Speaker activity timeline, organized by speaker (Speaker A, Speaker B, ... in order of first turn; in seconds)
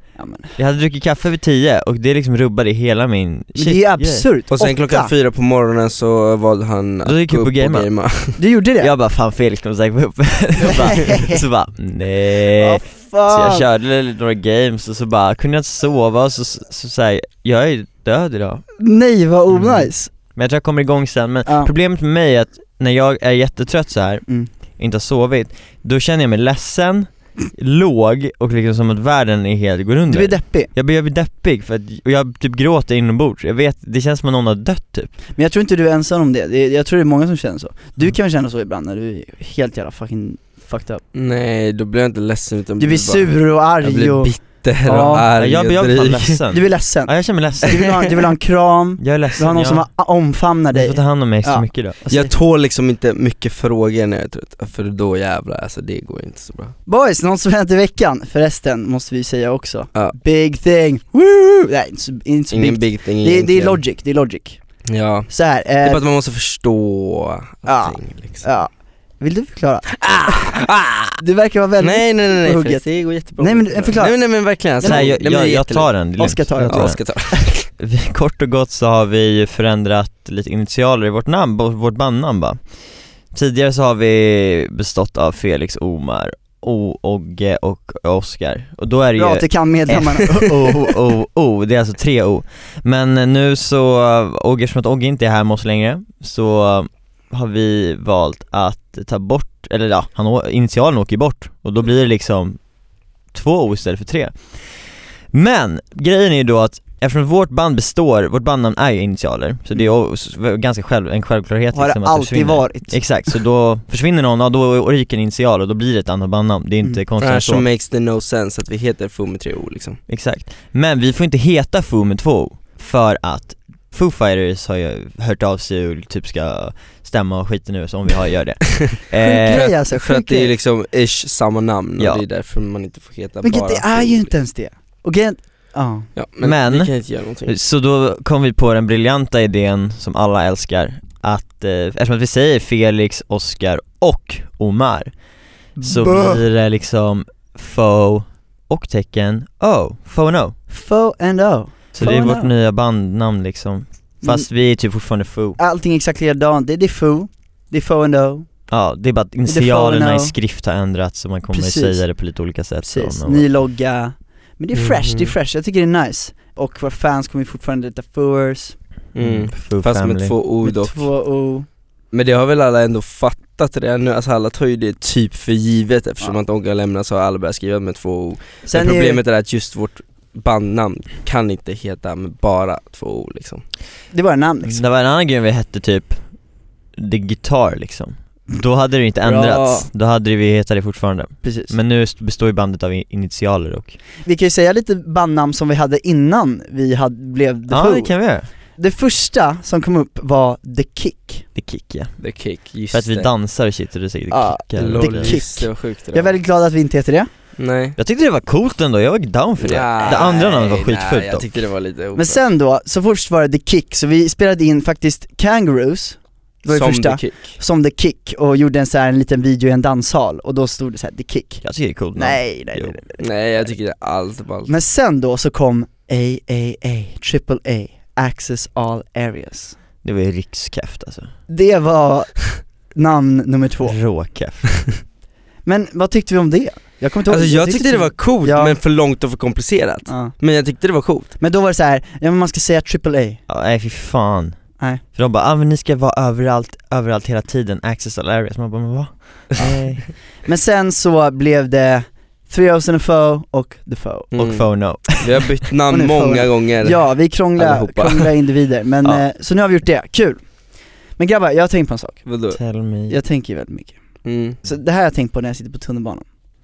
Speaker A: 0.1-0.6, 3.6-5.1, 8.4-8.9, 10.6-11.4, 12.5-13.7, 18.8-20.1, 21.4-21.7, 30.1-30.7, 35.3-41.0, 42.8-45.3, 46.5-52.3, 56.9-64.6, 65.3-66.0, 67.7-70.3, 71.2-72.8, 73.3-75.3, 76.2-77.6, 89.2-90.5, 111.7-113.3, 129.2-130.5, 133.4-136.1, 145.8-146.4, 150.7-152.5, 154.2-154.5, 155.6-158.5, 159.4-160.3, 161.5-162.1, 162.8-168.8, 170.6-171.7, 178.7-179.2, 184.1-184.8, 189.2-189.9, 191.4-191.7, 194.2-198.2, 198.8-201.4, 204.3-207.3, 212.1-223.6, 224.7-229.8, 231.5-234.0, 235.6-238.8, 240.1-240.4, 241.4-243.4, 250.4-254.3, 255.9-260.4, 261.2-262.2, 263.1-264.0, 264.6-266.2
Speaker B: 0.5-4.2, 7.0-8.0, 8.8-18.6, 19.5-24.2, 24.8-35.1, 45.3-48.0, 49.0-49.9, 50.7-52.0, 74.8-77.0, 77.7-82.7, 83.3-102.6, 103.3-117.7, 120.1-129.7, 132.0-132.2, 136.4-136.9, 137.4-145.1, 145.8-150.6, 151.9-155.6, 158.7-163.5, 169.2-170.4, 184.6-186.3, 186.9-194.0, 197.7-198.5, 201.6-202.2, 202.8-205.4, 208.0-211.5, 221.6-223.0, 230.0-231.3, 233.8-234.9, 243.5-250.1, 254.4-255.4, 262.5-263.2
Speaker C: 4.5-8.4, 41.1-46.4, 52.1-56.7, 62.5-63.8, 64.9-68.4, 70.0-71.2, 71.8-75.9, 76.7-77.5, 117.2-120.0, 129.5-134.3, 136.1-137.5, 164.7-165.3, 169.1-171.1, 172.1-183.6, 202.2-203.3, 204.8-206.4, 207.6-207.9, 209.6-212.4, 216.7-217.6, 223.2-224.7, 237.3-241.3, 254.3-254.7, 255.2-258.3, 262.2-262.6, 264.2-264.6